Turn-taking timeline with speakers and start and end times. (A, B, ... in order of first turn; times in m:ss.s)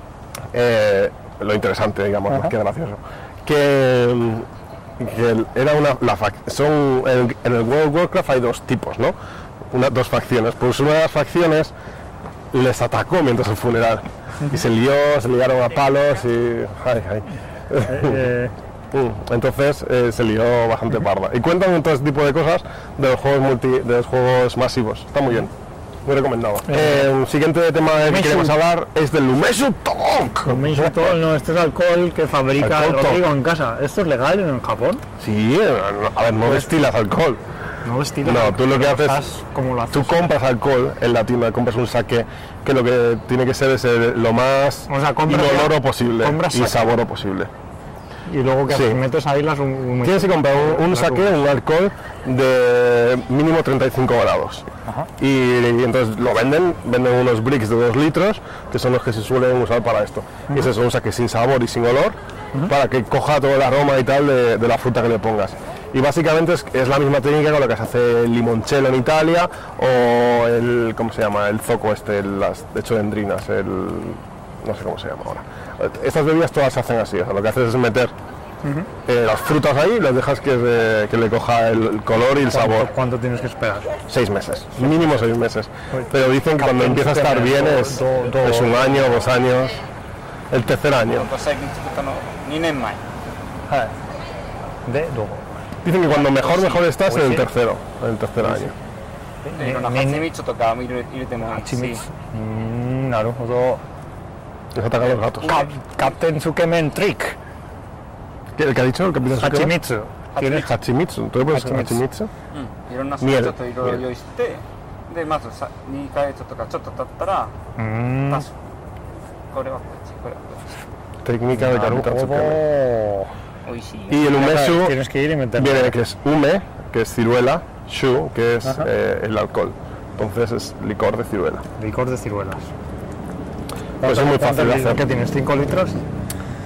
0:00.5-0:04.5 A
0:05.0-0:09.1 A
0:09.7-0:11.7 A
0:12.5-0:18.3 A
0:17.8-0:18.5 B
0:18.9-0:25.5 A
0:26.0-0:31.2 A
0:26.7-0:27.1 B
0:28.0-0:28.5 B
0:30.4-0:35.0 B
0:32.6-0:33.2 A
0:35.2-0:37.4 A
0:37.8-0:40.3 B
0:38.2-0:39.2 A
0:39.9-0:47.5 A
0:44.9-0:46.9 B
0:48.3-0:51.3 B
0:48.7-0:49.0 A
0:50.0-0:54.6 A
0:55.2-1:18.1 A
1:18.6-1:18.9 B
1:19.0-1:22.9 A
1:22.5-1:23.9 B
1:24.1-1:29.8 A
1:25.9-1:29.2 B
1:30.5-1:31.3 A
1:31.0-1:33.0 C
1:33.7-1:33.9 B
1:34.8-1:35.5 B
1:35.8-1:38.7 A
1:36.1-1:36.9 C
1:37.1-1:37.4 B
1:39.4-1:40.3 B
1:39.6-1:42.0 C
1:41.5-1:43.8 B
1:44.7-1:45.6 A
1:45.4-1:45.7 C
1:45.4-1:47.4 B
1:48.6-1:49.8 A
1:49.4-1:50.7 B
1:50.3-1:50.7 C
1:50.4-1:52.3 A
1:51.5-1:52.0 B
1:52.5-1:57.5 C
1:53.2-1:54.0 A
1:57.8-1:58.4 B
1:59.5-2:00.7 C
2:01.2-2:02.6 A
2:01.5-2:03.3 B
2:03.6-2:04.3 C
2:04.1-2:05.0 A
2:04.3-2:05.9 B
2:05.5-2:11.6 A
2:11.8-2:12.7 B
2:14.0-2:16.0 B
2:14.0-2:15.0 A